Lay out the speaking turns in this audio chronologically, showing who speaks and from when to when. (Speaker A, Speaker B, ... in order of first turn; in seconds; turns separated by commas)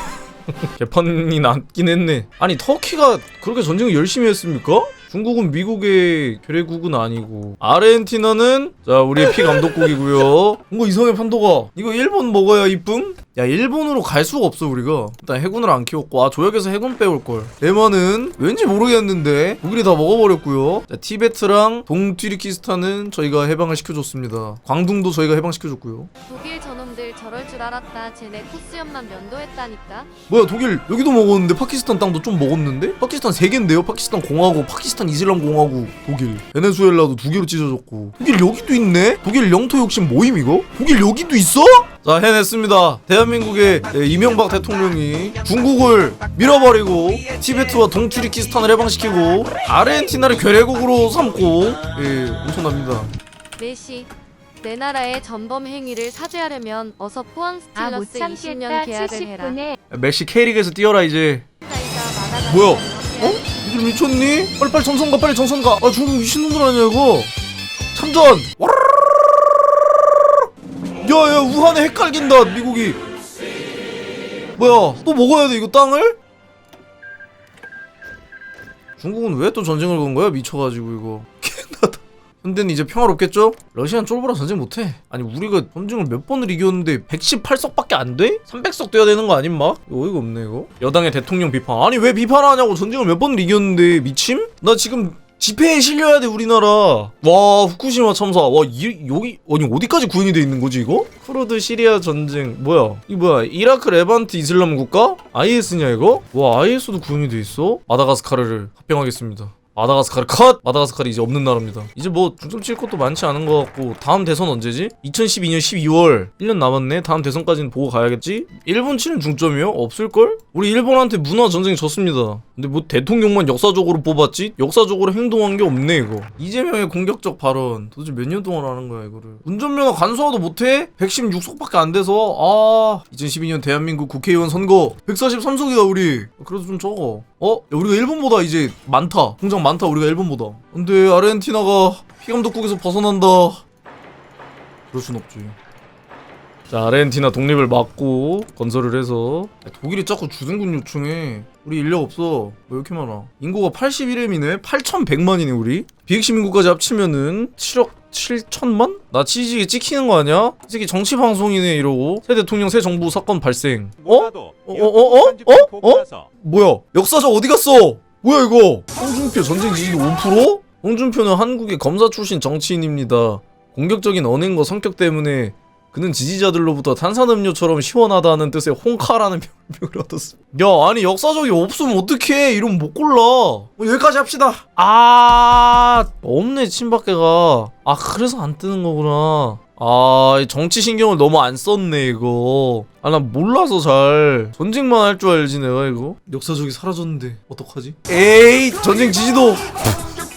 Speaker A: 0.5-26.1, Speaker B: 26.3-30.1, Speaker A: 30.3-53.1, Speaker B: 53.6-54.1, Speaker B: 54.6-59.6, Speaker C: 57.8-59.8, Speaker A: 59.9-61.4, Speaker B: 61.6-63.5, Speaker A: 62.5-67.3, Speaker A: 67.9-69.3, Speaker A: 71.0-73.0, Speaker A: 74.6-76.2, Speaker A: 79.0-143.6, Speaker A: 144.9-145.6, Speaker A: 146.7-199.7